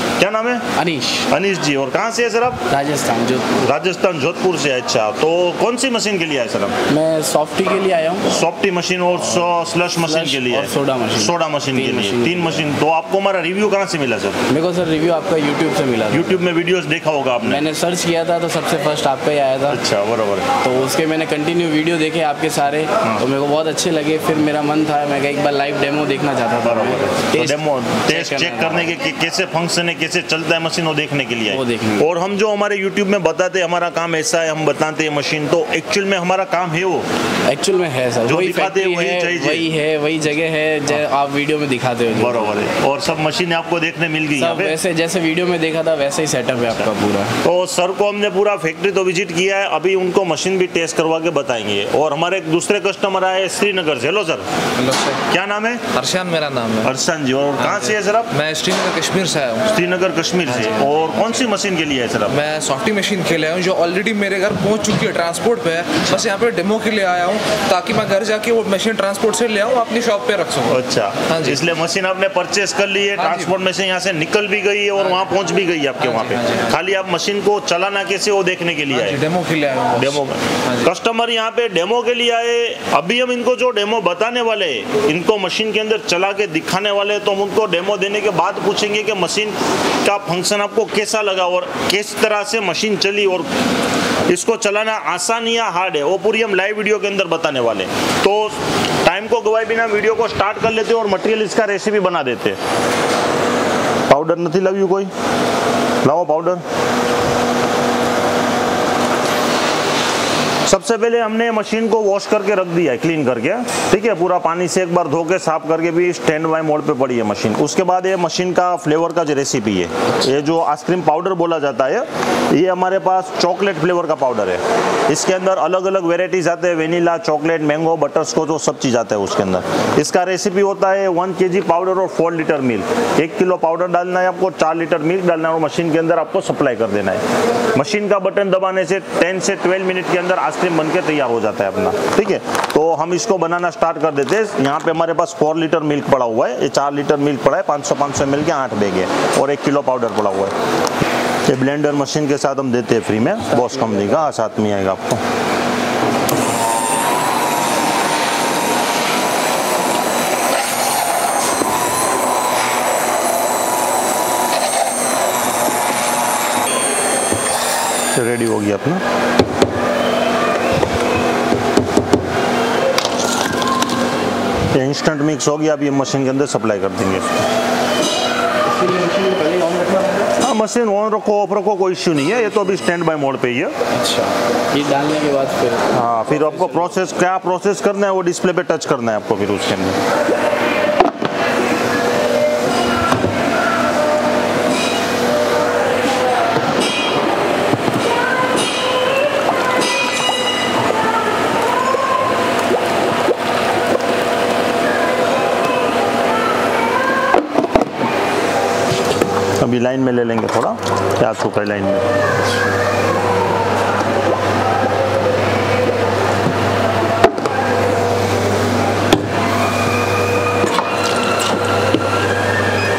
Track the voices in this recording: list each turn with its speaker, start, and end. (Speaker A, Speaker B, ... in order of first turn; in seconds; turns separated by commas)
Speaker A: 0.2-0.6, Speaker B: 0.8-1.3, Speaker A: 1.3-2.6, Speaker B: 2.7-3.6, Speaker A: 3.6-6.7, Speaker B: 6.9-8.3, Speaker A: 8.3-14.4, Speaker B: 10.0-12.7, Speaker B: 14.5-16.4, Speaker A: 16.1-17.6, Speaker B: 17.4-19.8, Speaker A: 19.7-20.5, Speaker B: 20.6-28.9, Speaker A: 26.6-37.1, Speaker B: 31.5-32.1, Speaker B: 37.5-42.7, Speaker A: 38.2-39.7, Speaker A: 42.1-44.8, Speaker B: 44.4-47.3, Speaker A: 47.4-54.5, Speaker C: 54.8-55.2, Speaker A: 55.3-55.8, Speaker C: 55.9-56.9, Speaker A: 56.8-58.3, Speaker C: 57.6-59.7, Speaker A: 59.6-62.4, Speaker C: 60.4-61.4, Speaker C: 62.3-71.6, Speaker A: 70.7-79.2, Speaker C: 73.2-73.5, Speaker C: 76.0-76.8, Speaker C: 78.9-80.9, Speaker A: 79.9-93.5, Speaker A: 94.3-102.6, Speaker A: 104.1-105.1, Speaker A: 106.0-106.6, Speaker A: 110.6-137.2, Speaker A: 137.7-150.5, Speaker A: 151.5-155.2, Speaker B: 153.5-154.2, Speaker A: 168.1-169.0, Speaker A: 174.7-177.4, Speaker B: 178.7-180.3, Speaker A: 180.4-183.7, Speaker B: 183.9-186.9, Speaker A: 185.9-190.0, Speaker A: 209.6-212.0